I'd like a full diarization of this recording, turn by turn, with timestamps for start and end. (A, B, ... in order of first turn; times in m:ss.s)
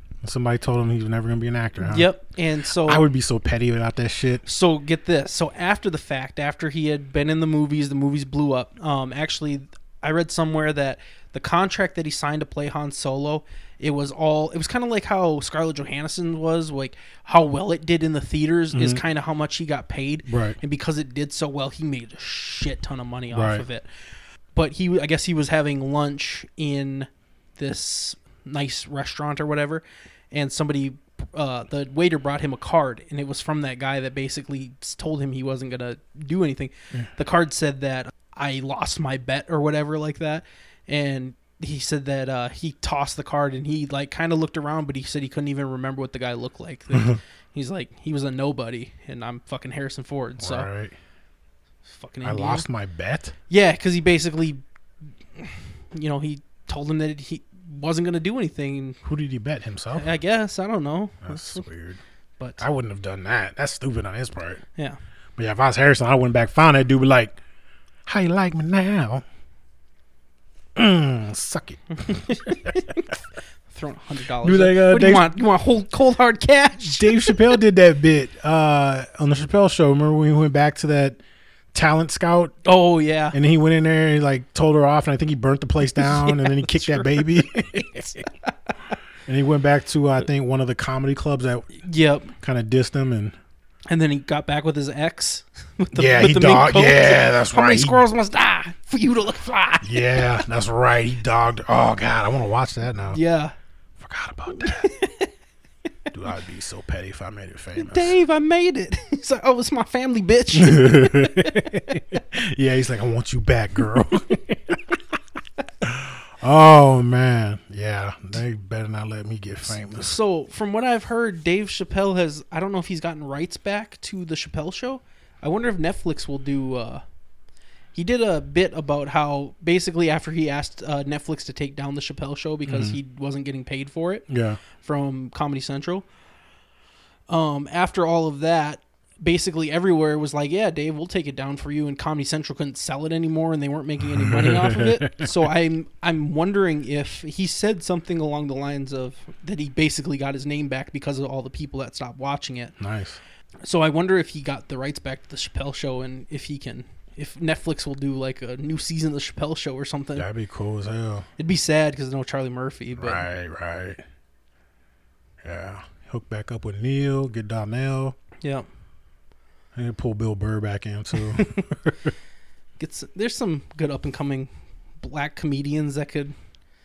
0:00.2-0:02.1 A
0:01.8-0:03.1 B
0:02.8-0:04.4 A
0:04.4-0:23.9 B
0:18.7-0:19.0 A
0:20.3-0:20.6 A
0:23.3-0:23.6 A
0:24.5-0:50.7 B
0:46.9-0:47.2 A
0:50.4-0:51.0 A
0:51.9-0:52.7 B
0:52.2-0:53.3 A
0:53.5-0:54.6 B
0:55.4-0:59.0 B
0:59.0-1:00.1 A
0:59.9-1:01.6 B
1:01.2-1:02.0 A
1:02.6-1:04.6 A
1:05.4-1:07.4 A
1:08.1-1:09.2 A
1:10.8-1:12.8 A
1:12.0-1:13.1 B
1:13.7-1:17.6 B
1:14.4-1:15.3 A
1:16.8-1:21.2 A
1:21.7-1:22.5 A
1:22.6-1:23.4 B
1:23.3-1:28.2 A
1:26.0-1:27.9 B
1:29.3-1:31.8 A
1:31.8-1:32.3 B
1:32.4-1:33.4 A
1:33.9-1:40.4 B
1:35.9-1:38.0 A
1:39.8-1:43.2 A
1:43.1-1:43.5 B
1:44.0-1:44.9 A
1:44.6-1:45.3 B
1:46.1-1:48.1 A
1:47.8-1:52.0 B
1:50.5-1:55.0 A
1:55.8-2:00.2 A
1:59.7-2:07.0 B
2:08.0-2:16.1 B
2:12.7-2:13.0 A
2:14.3-2:14.6 A
2:17.3-2:32.8 B
2:24.1-2:25.4 A
2:32.8-2:33.2 A
2:33.6-2:40.3 B
2:40.2-2:41.3 A
2:41.4-2:43.3 B
2:43.0-2:44.0 A
2:45.4-2:48.2 A
2:48.4-2:48.7 B
2:49.7-2:52.1 A
2:51.3-2:51.7 B
2:52.8-2:54.5 B
2:55.0-2:56.3 B